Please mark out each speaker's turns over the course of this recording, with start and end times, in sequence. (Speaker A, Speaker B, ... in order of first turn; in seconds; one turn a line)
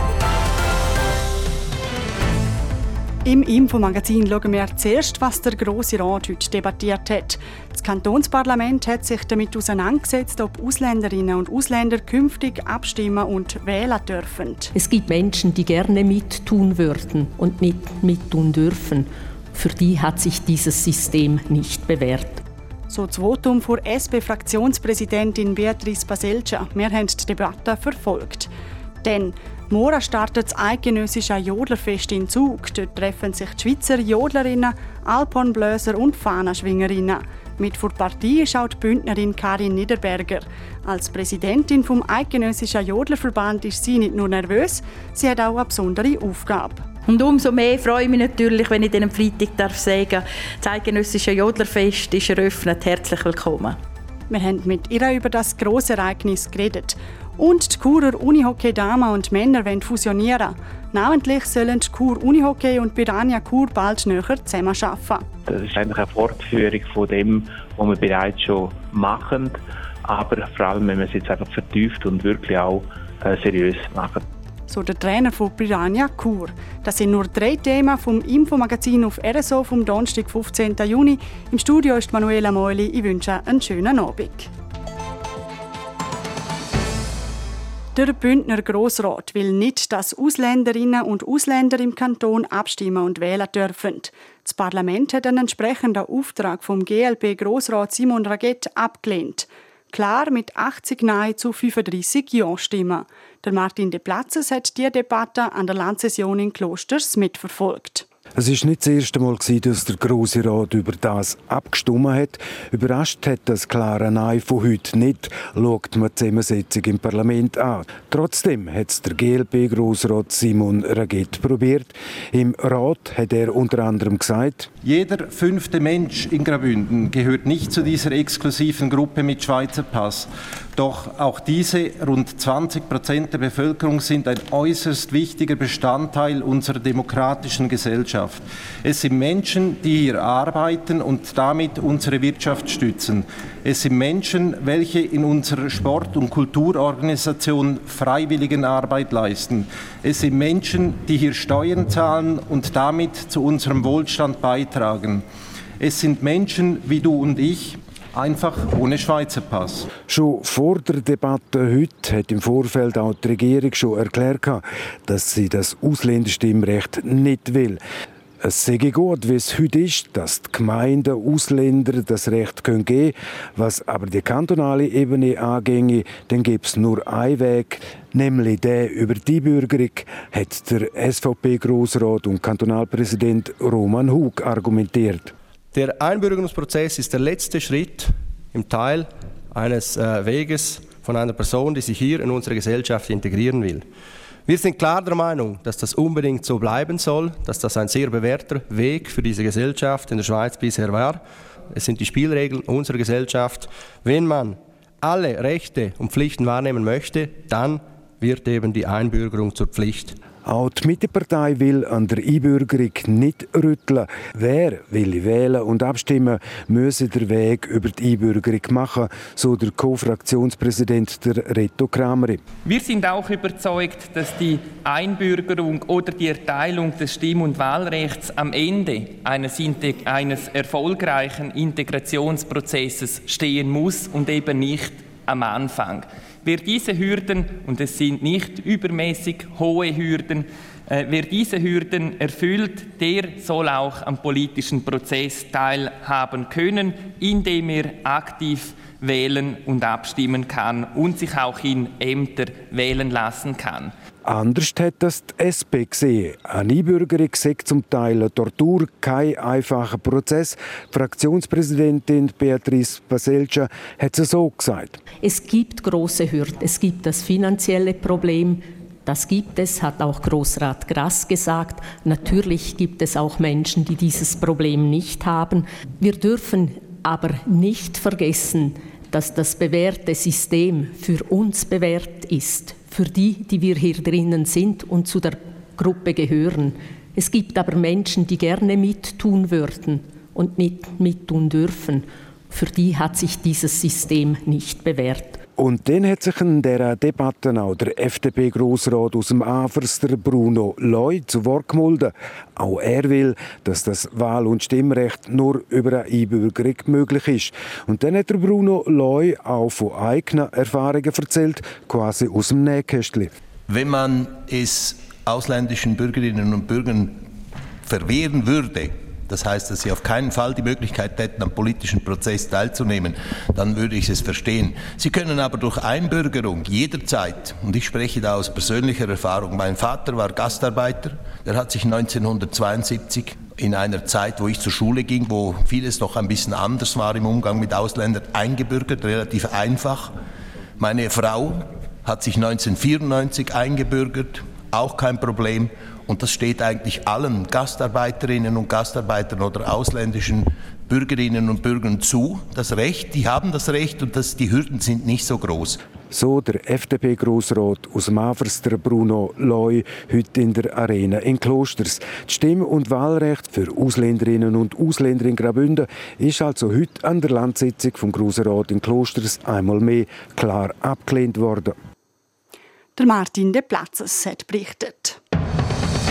Speaker A: 3.2-14.7
Speaker B: 14.7-22.4
Speaker A: 22.9-28.5
Speaker A: 29.0-46.9
Speaker C: 47.1-53.8
Speaker A: 54.3-65.2
Speaker D: 65.5-74.2
Speaker A: 74.7-84.5
Speaker A: 88.0-108.1
Speaker E: 108.3-124.7
Speaker F: 124.8-155.2
Speaker F: 155.8-159.9
Speaker E: 160.1-167.8
Speaker E: 168.4-185.3
Speaker G: 185.7-193.9
Speaker G: 194.5-210.2
Speaker E: 210.4-222.4
Speaker H: 222.7-253.9
Speaker E: 254.2-265.0
Speaker B: 265.2-295.4
Speaker E: 295.6-313.3
Speaker I: 313.7-317.3
Speaker I: 317.8-340.1
Speaker I: 340.8-355.8
Speaker E: 356.1-371.8
Speaker A: 373.0-375.2